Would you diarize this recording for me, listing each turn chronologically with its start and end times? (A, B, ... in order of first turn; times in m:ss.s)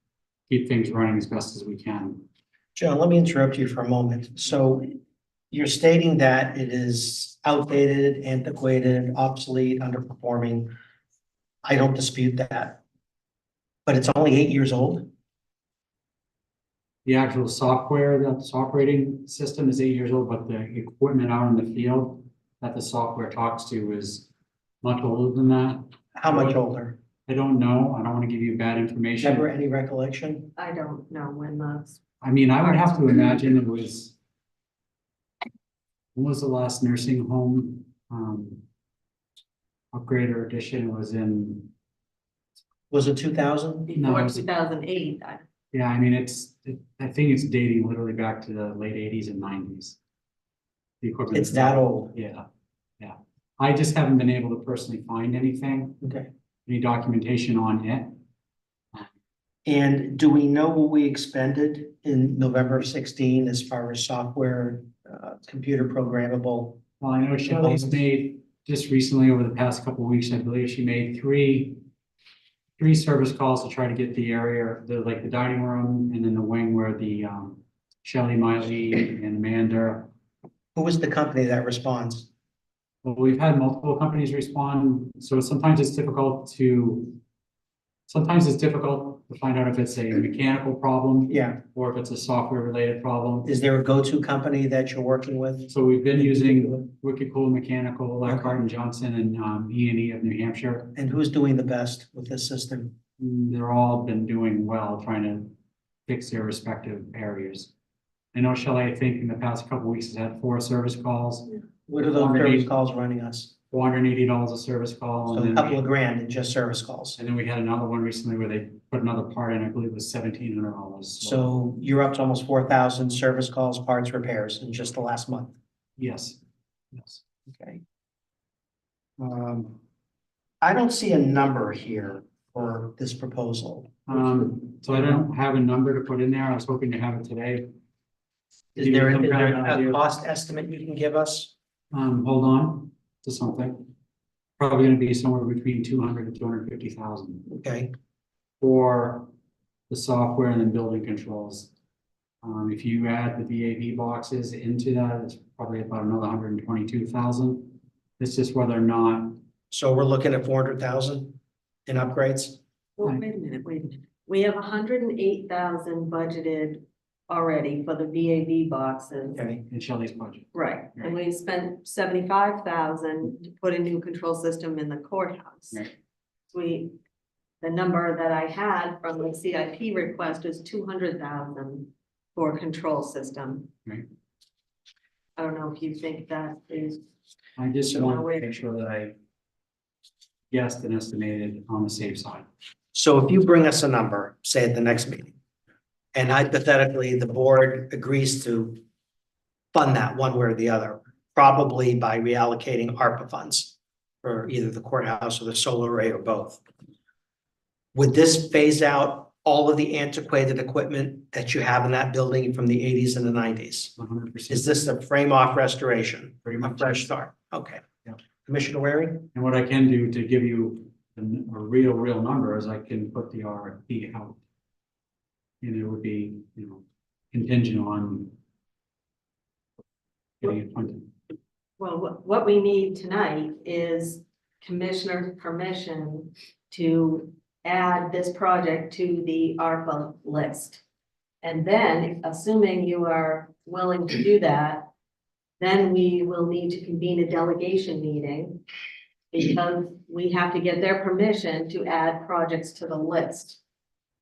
0:00.5-0:02.2 A
0:02.8-0:05.0 B
0:05.5-0:10.7 B
0:11.6-0:12.8 B
0:13.9-0:15.1 B
0:17.0-0:24.3 A
0:24.8-0:26.6 A
0:26.2-0:27.0 B
0:27.3-0:29.5 A
0:29.2-0:30.5 B
0:30.6-0:32.0 C
0:32.2-0:34.2 A
0:32.6-0:33.1 C
0:36.2-0:38.6 A
0:39.9-0:41.7 A
0:42.9-0:43.9 B
0:43.9-0:45.5 C
0:44.0-0:44.4 A
0:45.7-0:50.0 A
0:51.0-0:52.5 A
0:51.3-0:52.1 B
0:53.0-0:56.0 A
0:56.0-0:56.3 B
0:56.7-0:58.2 A
0:59.7-1:06.8 B
1:07.0-1:11.8 A
1:07.5-1:08.0 B
1:12.8-1:20.1 A
1:20.8-1:22.3 B
1:23.0-1:27.2 A
1:28.1-1:33.5 A
1:31.3-1:31.6 B
1:33.4-1:36.9 B
1:35.7-1:40.9 A
1:38.2-1:38.6 B
1:41.0-1:42.9 B
1:43.2-1:45.5 A
1:46.1-1:47.7 A
1:48.3-1:52.7 A
1:51.9-1:53.5 B
1:53.7-1:55.8 A
1:55.3-1:57.2 B
1:57.2-2:01.5 A
2:01.2-2:05.5 B
2:06.0-2:06.4 A
2:06.9-2:07.2 A
2:07.5-2:07.8 B
2:09.2-2:09.8 B
2:10.6-2:14.2 B
2:14.1-2:17.7 A
2:18.8-2:21.5 B
2:18.8-2:20.0 A
2:21.9-2:23.9 A
2:24.6-2:27.5 A
2:27.5-2:27.9 B
2:28.6-2:29.3 A
2:29.9-2:31.7 A
2:32.4-2:39.4 A
2:39.7-2:42.6 B
2:43.0-2:49.4 C
2:49.4-2:49.6 B
2:49.7-2:51.2 A
2:50.5-2:55.8 C
2:56.5-2:57.0 C
2:57.6-3:03.7 C
3:05.4-3:07.0 C
3:07.6-3:09.2 A
3:07.9-3:08.6 C
3:10.5-3:12.5 A
3:12.9-3:15.3 B
3:16.1-3:18.8 B
3:19.7-3:26.6 B
3:27.9-3:33.9 B
3:34.0-3:34.8 A
3:34.5-3:37.8 B
3:36.4-3:37.1 A
3:38.4-3:39.3 B
3:39.3-3:44.4 A
3:45.6-3:48.4 A
3:50.4-3:51.1 A
3:51.8-4:00.8 C
4:01.4-4:04.9 C
4:05.6-4:08.6 C
4:09.3-4:13.6 C